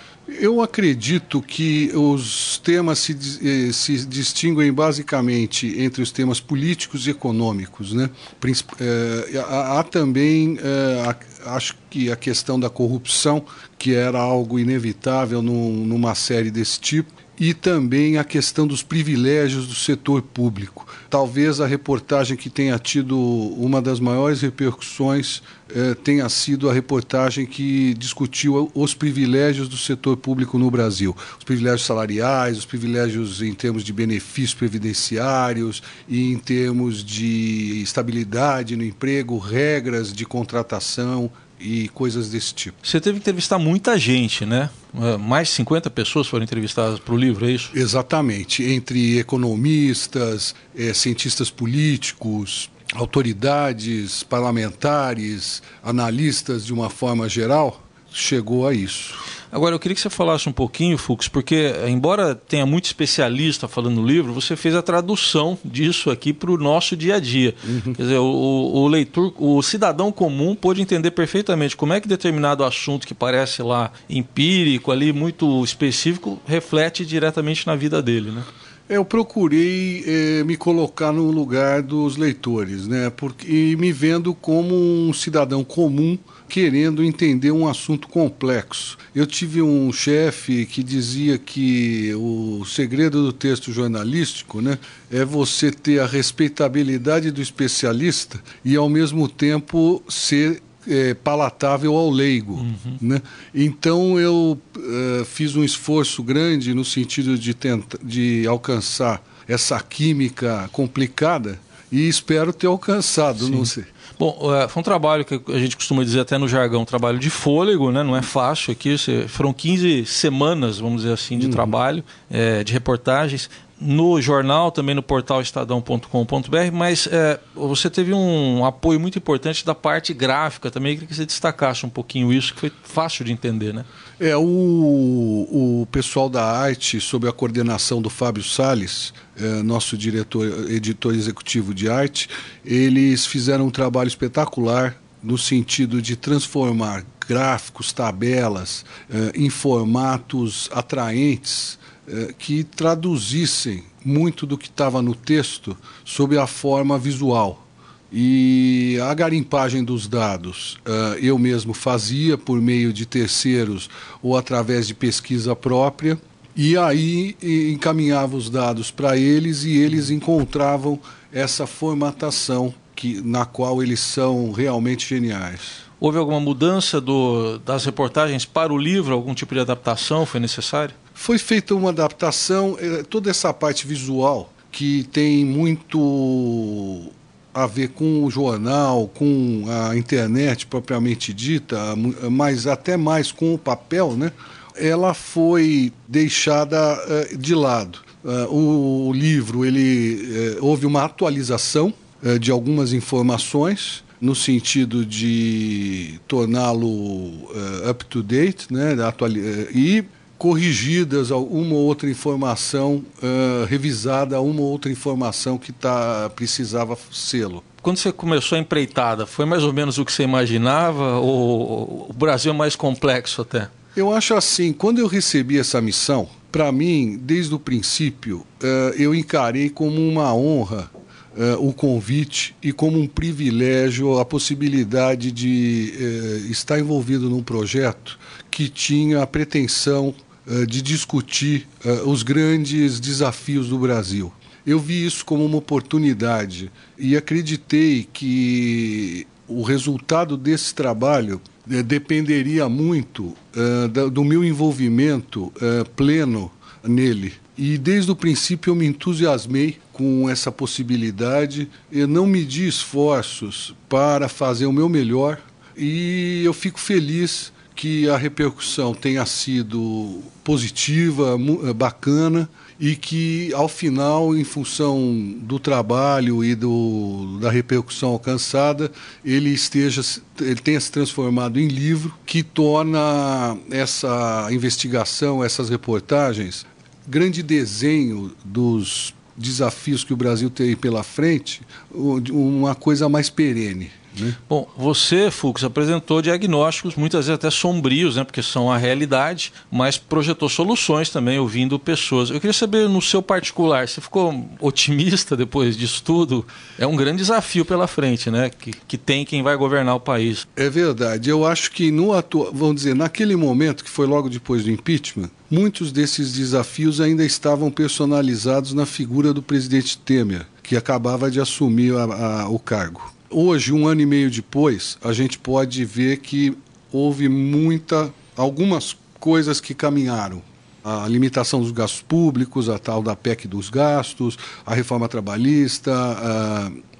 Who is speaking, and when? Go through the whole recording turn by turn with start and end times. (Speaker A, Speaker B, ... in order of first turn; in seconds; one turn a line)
Speaker A: 0.3-42.8
Speaker B: 42.8-47.7
Speaker A: 47.7-59.2
Speaker B: 59.5-78.5
Speaker A: 67.7-68.0
Speaker A: 78.9-113.9
Speaker B: 102.6-103.0
Speaker B: 113.4-133.9
Speaker A: 121.4-121.7
Speaker A: 134.2-175.8
Speaker B: 176.0-180.9
Speaker A: 181.2-217.6
Speaker B: 217.8-223.7
Speaker A: 223.9-294.4
Speaker B: 294.5-310.4
Speaker A: 310.6-336.8